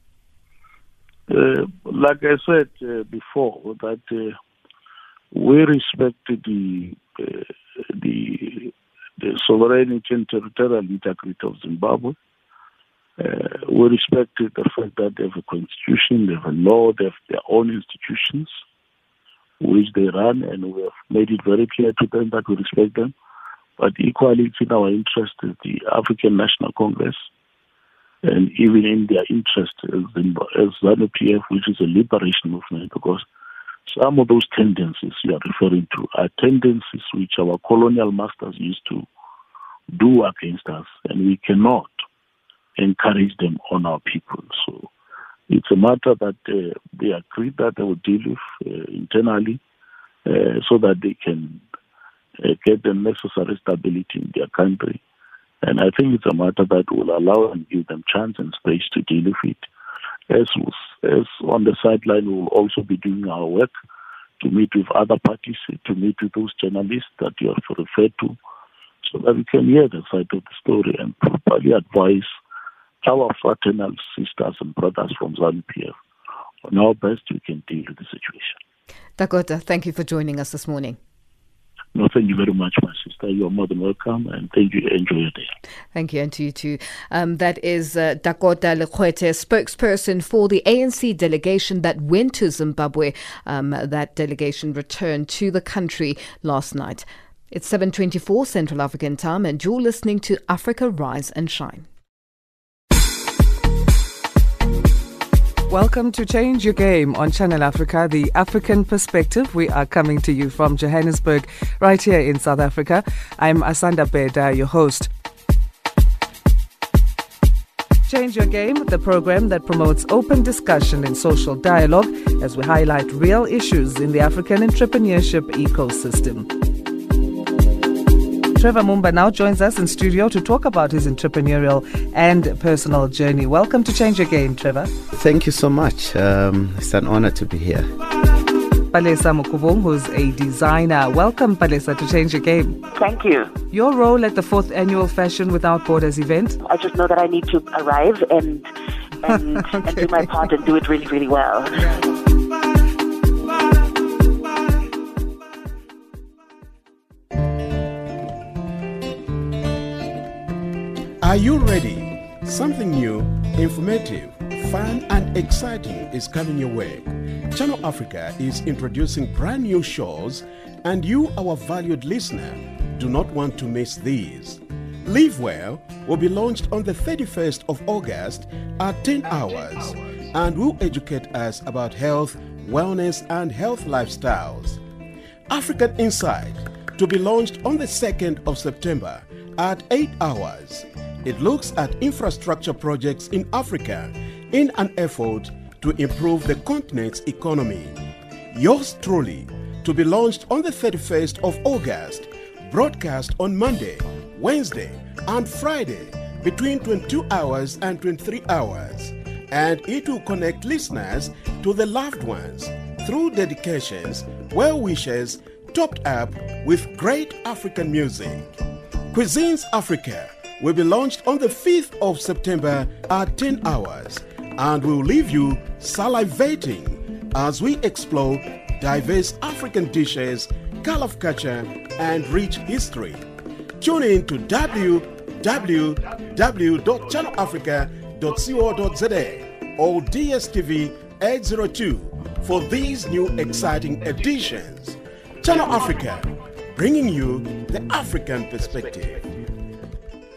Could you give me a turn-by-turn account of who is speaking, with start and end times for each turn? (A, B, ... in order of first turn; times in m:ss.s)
0:01.3-0:04.4 A
0:05.3-0:12.2 A
0:13.2-0:18.5 A
0:19.6-0:23.1 A
0:23.8-0:27.3 A
0:28.2-0:33.3 A
0:33.9-0:39.0 A
0:39.9-0:41.9 A
0:42.8-0:44.9 A
0:45.5-0:49.6 A
0:50.2-0:51.6 A
0:52.4-0:55.0 A
0:55.6-0:59.7 A
1:00.3-1:03.7 A
1:04.4-1:08.4 A
1:09.0-1:12.3 A
1:13.0-1:15.9 A
1:16.6-1:18.6 A
1:19.2-1:21.0 B
1:21.9-1:25.5 A
1:25.9-1:41.9 B
1:45.7-1:55.1 C
1:58.1-2:06.5 C
2:08.6-2:15.0 C
2:15.1-2:17.9 D
2:18.9-2:22.9 C
2:22.9-2:23.5 E
2:23.7-2:26.6 C
2:26.6-2:28.6 E
2:29.2-2:31.7 E
2:29.3-2:30.3 C
2:31.8-2:32.1 C
2:41.2-3:04.8 F
3:05.5-3:18.0 F
3:18.5-3:38.5 F
3:39.1-3:53.2 F
3:53.8-4:09.2 F